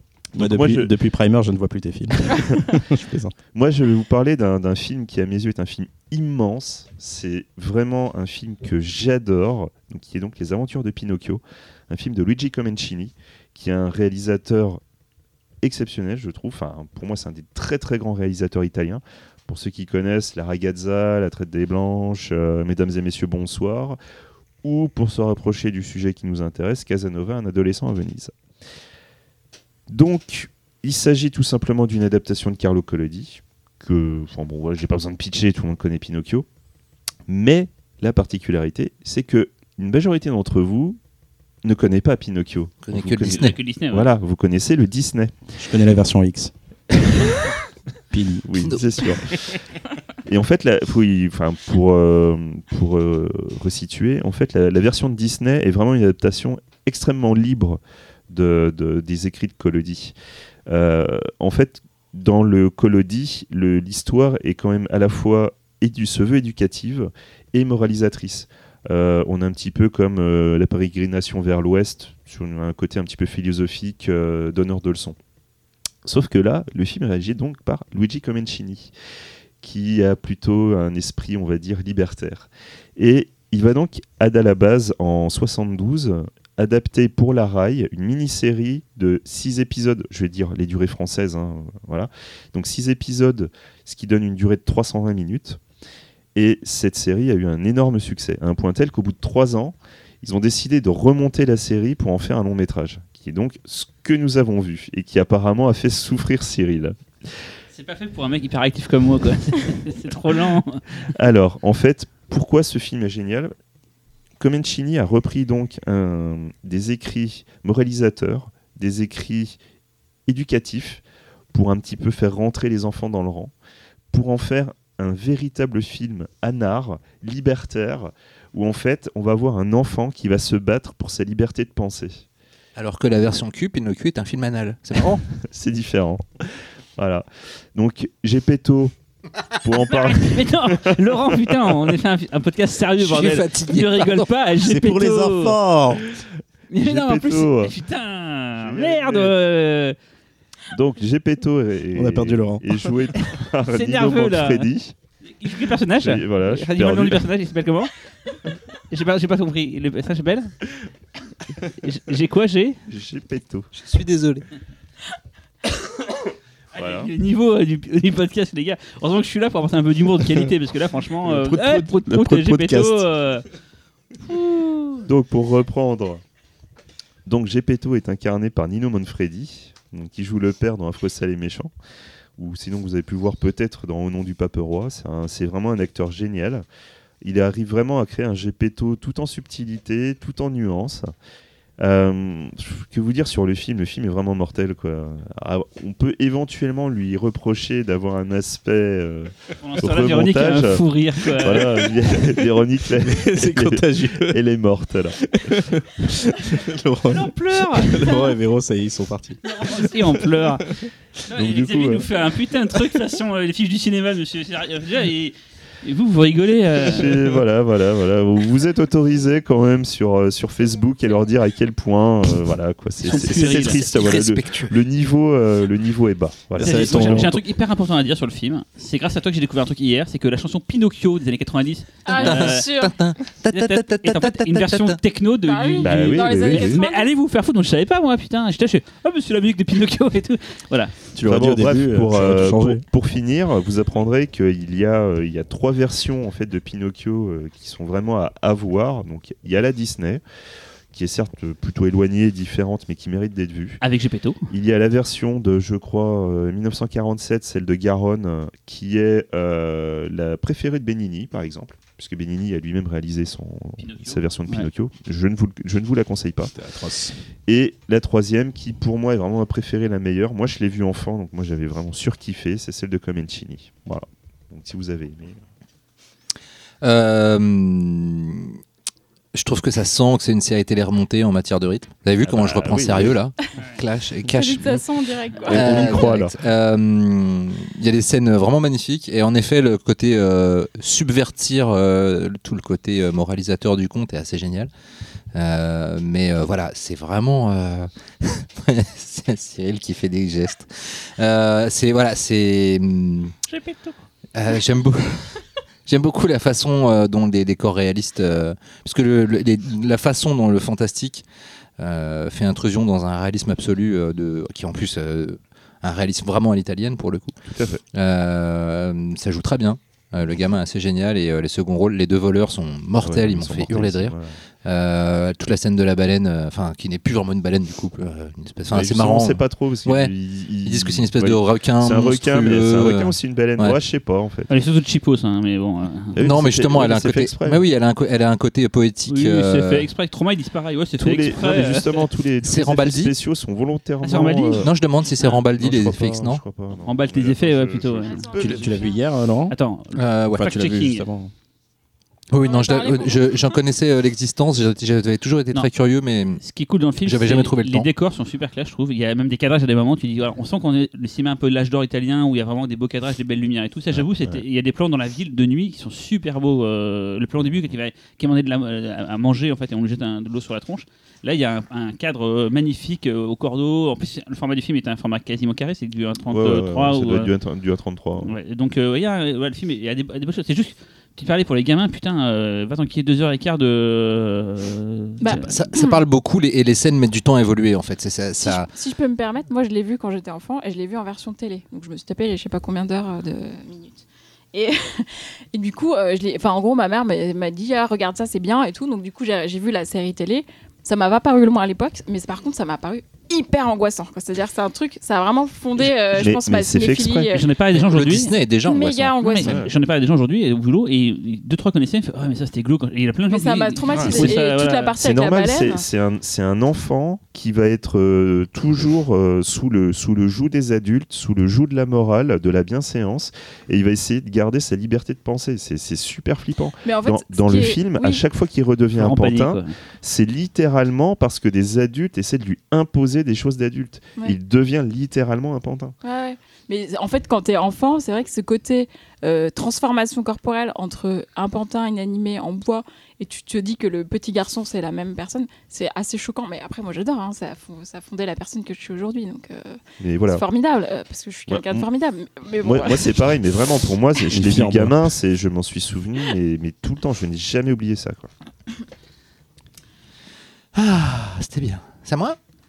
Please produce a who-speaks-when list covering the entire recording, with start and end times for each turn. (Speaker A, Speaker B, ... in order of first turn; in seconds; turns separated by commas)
Speaker A: 0.3-0.9, Speaker B: 0.4-3.4, Speaker A: 3.5-14.8, Speaker A: 15.6-24.0, Speaker A: 24.6-28.4, Speaker A: 29.9-36.5, Speaker A: 37.3-41.0, Speaker A: 41.6-45.5, Speaker C: 42.9-43.6, Speaker D: 43.2-44.1, Speaker B: 45.6-46.5, Speaker B: 48.1-48.6, Speaker A: 48.5-49.6, Speaker A: 50.3-60.1, Speaker A: 60.7-75.2, Speaker A: 76.0-78.9, Speaker A: 79.6-95.6, Speaker A: 96.3-107.3, Speaker D: 107.7-110.8, Speaker A: 111.1-113.5, Speaker A: 114.4-119.6, Speaker A: 120.3-123.5, Speaker A: 124.1-132.2, Speaker C: 132.8-135.2, Speaker A: 135.5-138.9, Speaker A: 139.5-141.6, Speaker D: 139.9-145.6, Speaker C: 143.0-144.3, Speaker B: 144.6-145.9, Speaker A: 145.3-147.7, Speaker D: 146.7-150.0, Speaker A: 148.6-149.4, Speaker A: 150.7-154.9, Speaker B: 152.0-152.8, Speaker D: 153.7-154.7, Speaker D: 155.4-157.9, Speaker A: 156.0-157.2, Speaker D: 158.9-160.5, Speaker D: 161.8-162.8, Speaker A: 162.9-163.7, Speaker C: 163.8-164.4, Speaker A: 166.8-167.1, Speaker D: 166.8-173.4, Speaker B: 171.2-173.1, Speaker D: 174.3-174.9, Speaker A: 175.1-176.2, Speaker A: 177.3-181.7, Speaker A: 182.4-186.7, Speaker A: 187.2-191.1, Speaker A: 191.8-205.2, Speaker D: 199.6-201.8, Speaker B: 203.0-204.4, Speaker B: 205.2-210.9, Speaker D: 207.1-208.2, Speaker D: 209.4-210.6, Speaker D: 211.3-217.1, Speaker A: 211.3-212.1, Speaker A: 216.9-227.3, Speaker D: 223.1-223.8, Speaker C: 223.1-224.8, Speaker B: 226.6-227.4, Speaker D: 226.6-232.7, Speaker E: 232.1-232.9, Speaker C: 232.2-235.0, Speaker D: 233.5-241.0, Speaker E: 235.4-237.1, Speaker A: 235.8-236.8, Speaker B: 241.2-242.8, Speaker A: 241.2-250.2, Speaker A: 250.9-253.8, Speaker D: 253.8-254.5, Speaker A: 254.5-266.6, Speaker D: 263.8-264.7, Speaker B: 266.6-267.2, Speaker A: 267.5-275.4, Speaker C: 276.8-278.6, Speaker C: 279.3-284.8, Speaker A: 282.2-283.2, Speaker E: 284.3-285.9, Speaker A: 285.5-286.3, Speaker C: 285.5-294.7, Speaker B: 285.5-286.3, Speaker C: 295.3-303.3, Speaker D: 303.5-304.0, Speaker C: 304.3-311.2, Speaker C: 311.8-317.4, Speaker A: 317.5-317.8, Speaker C: 317.9-330.1, Speaker A: 323.0-324.4, Speaker A: 328.7-334.5, Speaker C: 330.6-333.8, Speaker D: 334.5-336.1, Speaker A: 336.1-337.6, Speaker C: 336.2-339.9, Speaker D: 339.1-342.0, Speaker A: 341.0-344.7, Speaker C: 342.4-343.1, Speaker D: 344.0-344.7, Speaker C: 344.6-346.4, Speaker A: 345.5-348.9, Speaker D: 346.8-348.3, Speaker E: 348.1-349.0, Speaker B: 348.4-349.6, Speaker D: 349.5-351.1, Speaker C: 349.9-350.8, Speaker B: 350.4-351.3, Speaker C: 352.3-356.4, Speaker E: 352.4-353.6, Speaker D: 356.4-377.3, Speaker C: 357.0-357.9, Speaker A: 363.9-364.4, Speaker A: 376.3-378.3, Speaker D: 378.2-385.6, Speaker E: 385.2-386.0, Speaker C: 385.4-388.7, Speaker E: 388.4-407.5, Speaker A: 405.9-407.3, Speaker D: 407.3-408.3, Speaker C: 407.7-409.6, Speaker E: 408.6-409.6, Speaker D: 409.2-414.9, Speaker A: 409.4-409.7, Speaker E: 413.3-415.9, Speaker A: 413.9-414.4, Speaker A: 415.0-436.0, Speaker E: 426.8-428.2, Speaker D: 428.9-429.8, Speaker E: 436.0-453.3, Speaker A: 450.0-450.4, Speaker A: 451.5-451.8, Speaker A: 452.6-458.3, Speaker B: 454.3-455.0, Speaker C: 460.7-462.4